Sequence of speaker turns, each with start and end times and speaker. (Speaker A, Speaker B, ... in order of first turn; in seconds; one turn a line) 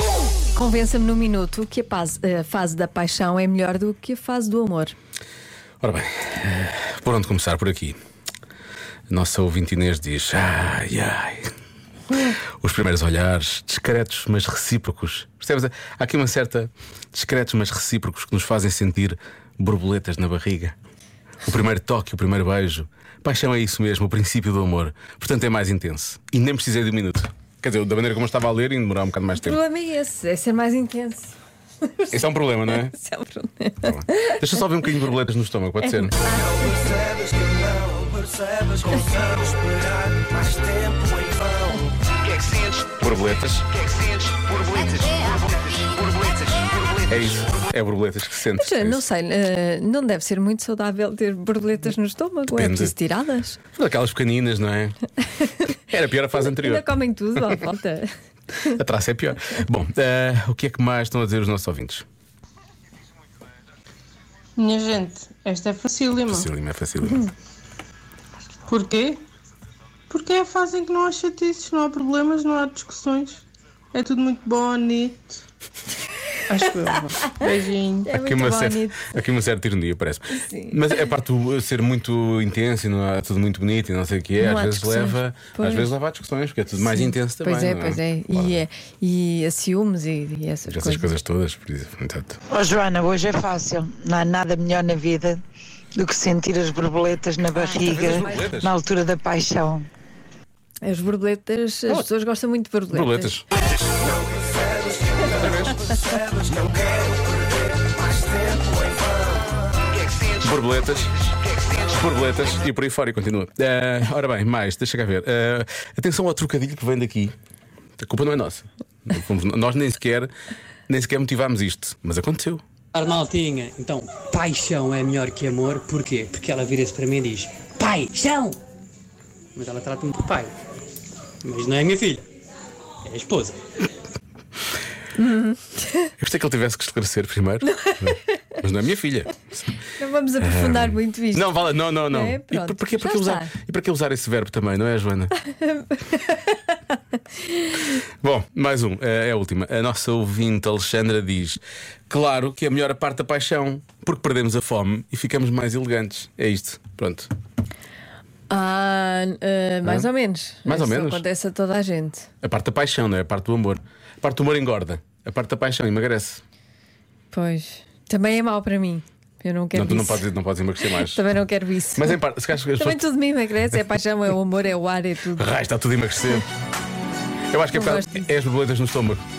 Speaker A: 0.5-4.9
Speaker B: 5.8-8.0
Speaker B: 9.1-11.5
Speaker B: 12.1-20.8
Speaker B: 21.4-29.6
Speaker A: 29.4-34.5
Speaker B: 32.1-33.0
Speaker B: 33.8-36.2
Speaker A: 35.9-37.2
Speaker C: 37.2-41.6
Speaker A: 38.9-39.1
Speaker B: 42.8-43.8
Speaker B: 47.1-49.0
Speaker A: 48.6-53.6
Speaker B: 52.5-53.0
Speaker B: 53.7-55.0
Speaker B: 55.7-57.6
Speaker A: 56.5-58.1
Speaker B: 58.6-62.0
Speaker D: 64.6-66.5
Speaker B: 66.3-67.2
Speaker D: 68.7-69.2
Speaker D: 70.1-75.2
Speaker D: 76.5-78.1
Speaker A: 78.0-79.2
Speaker B: 78.1-88.6
Speaker A: 80.3-80.8
Speaker A: 84.4-85.9
Speaker A: 86.8-91.1
Speaker B: 90.7-92.4
Speaker E: 92.5-95.4
Speaker E: 95.9-99.9
Speaker A: 97.5-98.5
Speaker B: 97.7-98.7
Speaker A: 100.8-103.3
Speaker B: 102.9-103.5
Speaker B: 105.2-106.4
Speaker B: 110.3-111.1
Speaker B: 111.6-117.3
Speaker B: 118.0-120.3
Speaker B: 120.9-122.6
Speaker F: 122.9-128.6
Speaker F: 129.6-130.5
Speaker F: 131.4-132.3
Speaker F: 133.0-133.6
Speaker A: 135.2-136.1
Speaker B: 136.2-139.7
Speaker A: 137.7-138.3
Speaker A: 140.0-143.5
Speaker B: 140.4-145.3
Speaker A: 145.5-146.8
Speaker A: 147.5-147.9
Speaker B: 148.2-157.3
Speaker A: 158.5-162.3
Speaker B: 160.7-161.2
Speaker B: 162.4-166.4
Speaker A: 167.3-170.2
Speaker B: 169.7-171.2
Speaker A: 170.8-172.2
Speaker B: 172.0-173.0
Speaker A: 172.7-175.5
Speaker B: 175.4-176.4
Speaker B: 177.5-179.2
Speaker A: 177.7-178.3